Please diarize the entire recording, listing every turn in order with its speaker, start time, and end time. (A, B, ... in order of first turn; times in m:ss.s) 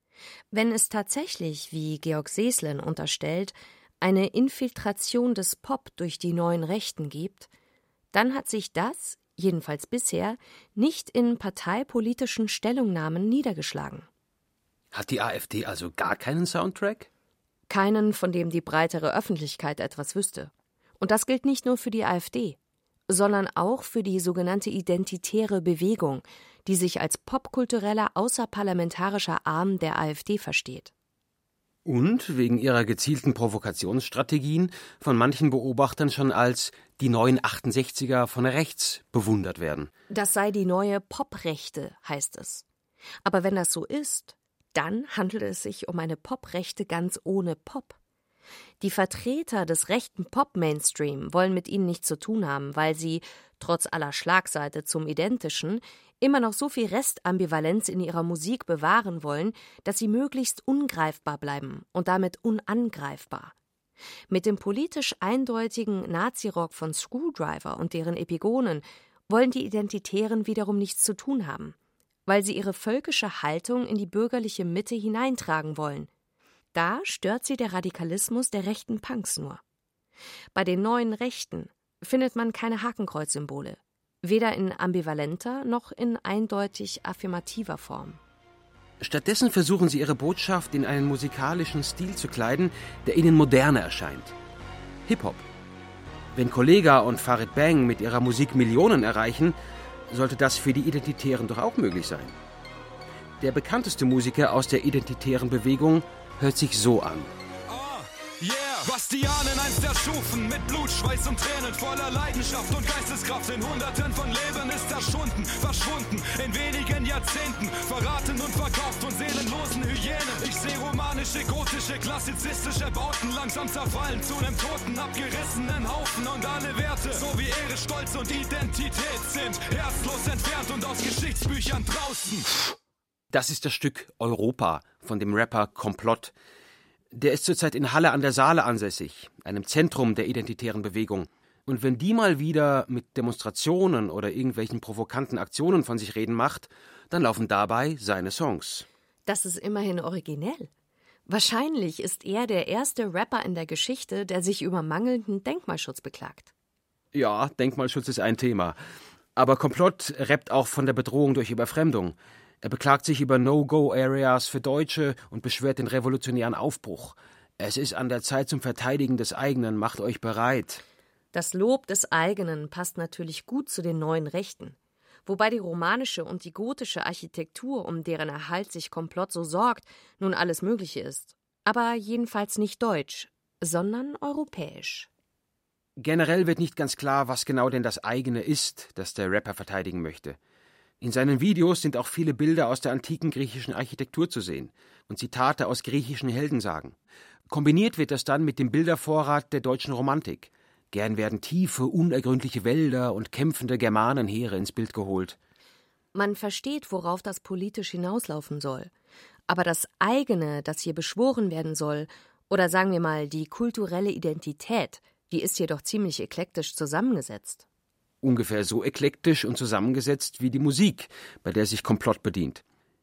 0:00.5-0:07.5 A
0:08.1-0:14.1 A
0:14.9-0:17.1 B
0:17.7-0:22.6 A
0:23.1-0:30.9 A
0:31.9-0:39.9 B
0:40.1-0:42.7 A
0:43.2-0:48.0 A
0:48.8-1:03.5 A
1:04.3-1:16.1 A
1:16.7-1:19.6 A
1:20.6-1:28.2 A
1:29.0-1:34.3 B
1:35.1-1:35.4 B
1:36.3-1:39.6 B
1:40.1-1:42.4 B
1:43.4-1:47.3 B
1:47.7-2:12.4 C
2:13.3-2:16.3 B
2:17.1-2:28.9 B
2:29.3-2:30.7 A
2:31.3-2:36.5 A
2:37.1-2:38.8 B
2:39.4-2:50.8 B
2:51.3-3:05.1 A
3:06.0-3:10.4 B
3:11.0-3:17.0 B
3:17.5-3:25.4 B
3:26.2-3:28.9 A
3:29.5-3:37.6 A
3:38.2-3:42.6 B